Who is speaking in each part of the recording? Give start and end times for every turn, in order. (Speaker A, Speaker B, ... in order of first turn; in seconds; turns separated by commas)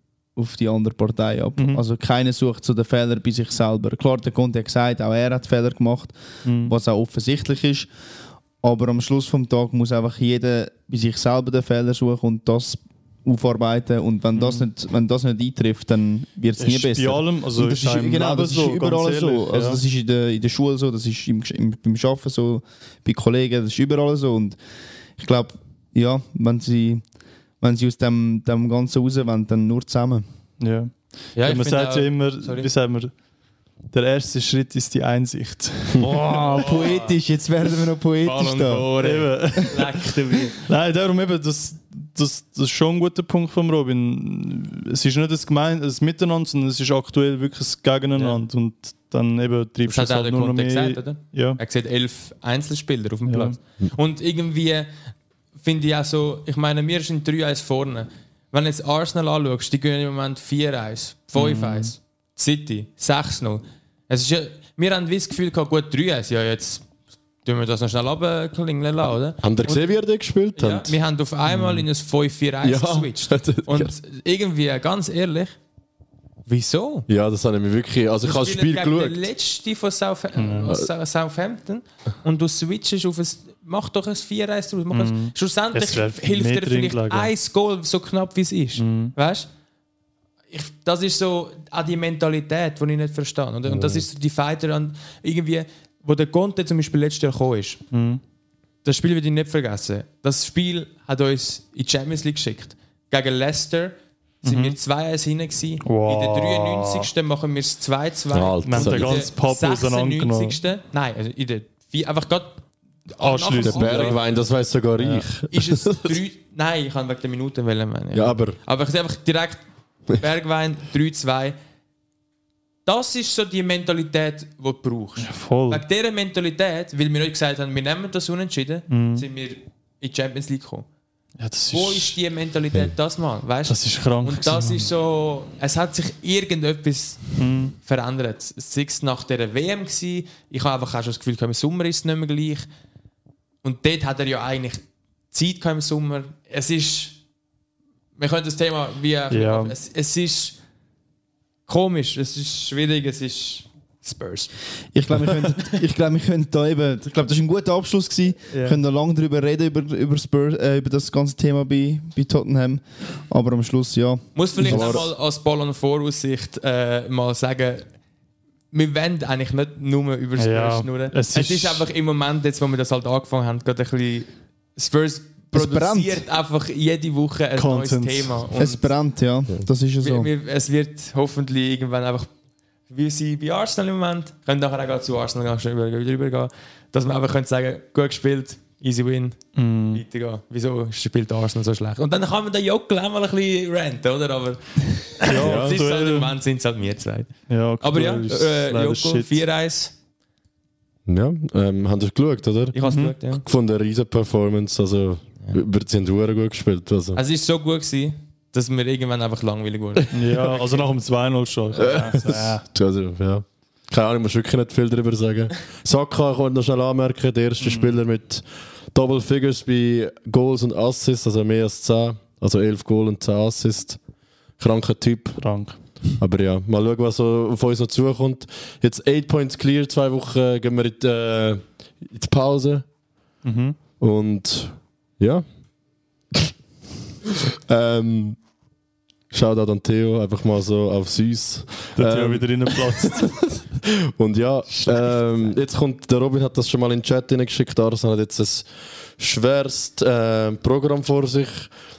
Speaker A: 0.4-7.9, Speaker B: 1.6-1.8, Speaker B: 6.5-6.7, Speaker A: 8.6-24.6, Speaker B: 14.3-14.7, Speaker B: 16.6-19.8, Speaker A: 25.2-27.0, Speaker A: 27.6-30.2, Speaker B: 30.6-33.1, Speaker C: 31.4-32.7, Speaker B: 33.9-36.4, Speaker A: 36.0-38.9, Speaker C: 36.3-37.2, Speaker C: 38.2-40.6, Speaker B: 39.0-40.0, Speaker B: 40.6-51.6, Speaker C: 48.1-48.4, Speaker C: 49.9-54.9, Speaker B: 53.3-53.6, Speaker C: 55.6-66.9, Speaker B: 61.4-61.9, Speaker C: 67.5-69.9, Speaker D: 69.4-71.0, Speaker C: 70.5-75.6, Speaker B: 71.5-71.9, Speaker D: 72.6-73.9, Speaker C: 76.5-77.1, Speaker D: 77.1-79.3, Speaker C: 78.2-89.5, Speaker B: 80.4-80.7, Speaker B: 84.9-87.3, Speaker B: 88.8-89.2, Speaker C: 90.5-97.8, Speaker D: 93.7-94.0, Speaker B: 97.9-98.2, Speaker C: 98.8-114.2, Speaker B: 104.4-104.8, Speaker B: 105.8-107.1, Speaker D: 108.3-109.3, Speaker B: 108.6-110.6, Speaker B: 113.2-114.2, Speaker D: 113.6-116.2, Speaker B: 115.0-115.3, Speaker C: 115.5-121.6, Speaker D: 118.1-118.6, Speaker C: 122.8-130.9, Speaker B: 125.2-125.8, Speaker B: 128.9-129.3, Speaker B: 131.4-132.2, Speaker C: 131.7-142.7, Speaker B: 133.7-134.9, Speaker B: 137.4-137.7, Speaker C: 143.6-147.2, Speaker C: 148.2-150.6, Speaker B: 149.3-149.7, Speaker C: 151.7-154.5, Speaker A: 154.9-165.0, Speaker C: 158.5-158.8, Speaker C: 164.3-167.9, Speaker D: 164.6-165.1, Speaker C: 168.7-178.9, Speaker B: 170.4-171.8, Speaker A: 175.5-176.2, Speaker B: 177.6-178.4, Speaker A: 178.6-180.3, Speaker C: 180.0-182.3, Speaker C: 182.9-199.9, Speaker B: 189.6-190.0, Speaker B: 195.2-196.3, Speaker D: 195.4-195.8, Speaker B: 197.5-199.4, Speaker D: 201.1-202.8, Speaker C: 202.7-203.4, Speaker B: 202.9-203.1, Speaker D: 203.3-207.2, Speaker C: 207.2-210.8, Speaker B: 210.1-212.6, Speaker D: 211.7-224.0, Speaker B: 217.6-217.9, Speaker D: 224.6-225.4, Speaker B: 225.4-225.8, Speaker D: 226.2-232.9, Speaker B: 233.4-233.8, Speaker D: 234.0-235.4, Speaker D: 237.2-238.4, Speaker D: 239.3-251.7, Speaker B: 241.9-243.5, Speaker C: 244.7-245.5